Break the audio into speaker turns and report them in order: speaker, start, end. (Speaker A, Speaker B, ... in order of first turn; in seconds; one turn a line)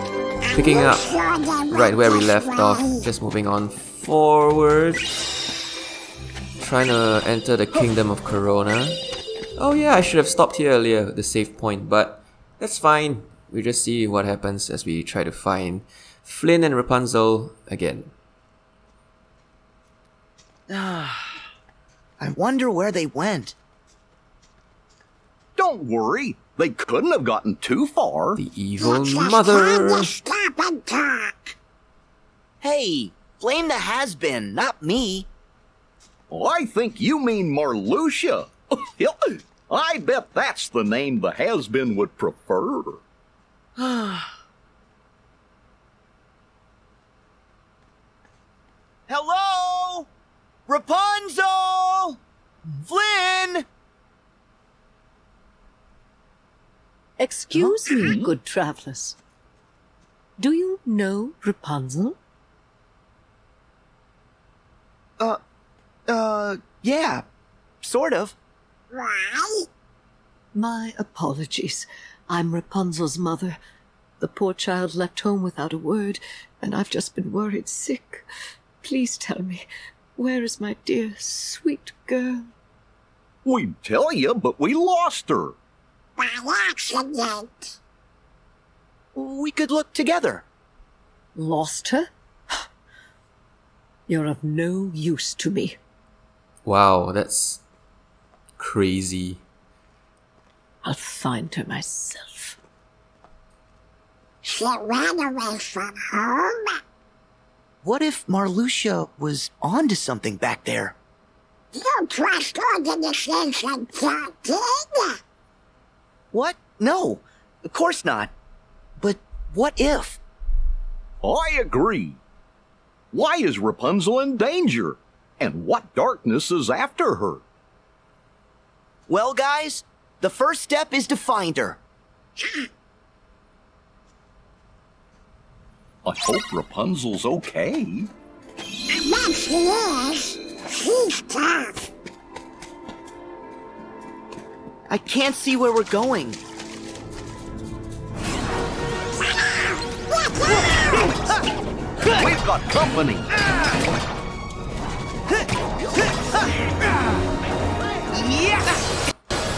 Speaker A: 0.5-3.0
Speaker B: 0.5-1.1
Speaker B: 1.7-5.0
Speaker B: 6.6-9.0
Speaker B: 9.6-18.1
Speaker C: 20.7-21.3
Speaker C: 22.2-23.6
Speaker D: 25.6-28.4
Speaker B: 28.4-30.1
Speaker A: 28.8-31.6
Speaker C: 32.6-35.3
Speaker D: 36.3-43.0
Speaker C: 43.8-44.3
Speaker C: 49.1-50.1
Speaker C: 50.7-53.7
Speaker E: 57.2-59.2
Speaker C: 57.5-58.3
Speaker E: 60.4-62.2
Speaker C: 66.1-67.3
Speaker C: 67.8-68.4
Speaker A: 68.9-69.7
Speaker E: 70.5-73.6
Speaker E: 74.2-78.3
Speaker E: 78.8-82.5
Speaker D: 83.5-85.5
Speaker A: 86.2-87.8
Speaker C: 89.1-90.5
Speaker E: 91.3-92.6
Speaker E: 94.1-95.8
Speaker B: 96.7-97.6
Speaker B: 98.6-99.4
Speaker E: 100.8-102.6
Speaker A: 104.4-106.8
Speaker C: 107.8-111.0
Speaker A: 111.7-115.2
Speaker C: 116.3-118.3
Speaker C: 119.0-120.2
Speaker D: 121.2-122.2
Speaker D: 123.1-127.4
Speaker C: 129.1-131.8
Speaker A: 132.4-132.7
Speaker D: 136.1-138.1
Speaker A: 138.9-141.9
Speaker C: 144.9-146.4
Speaker A: 149.2-151.4
Speaker D: 152.2-153.3
Speaker D: 155.8-156.2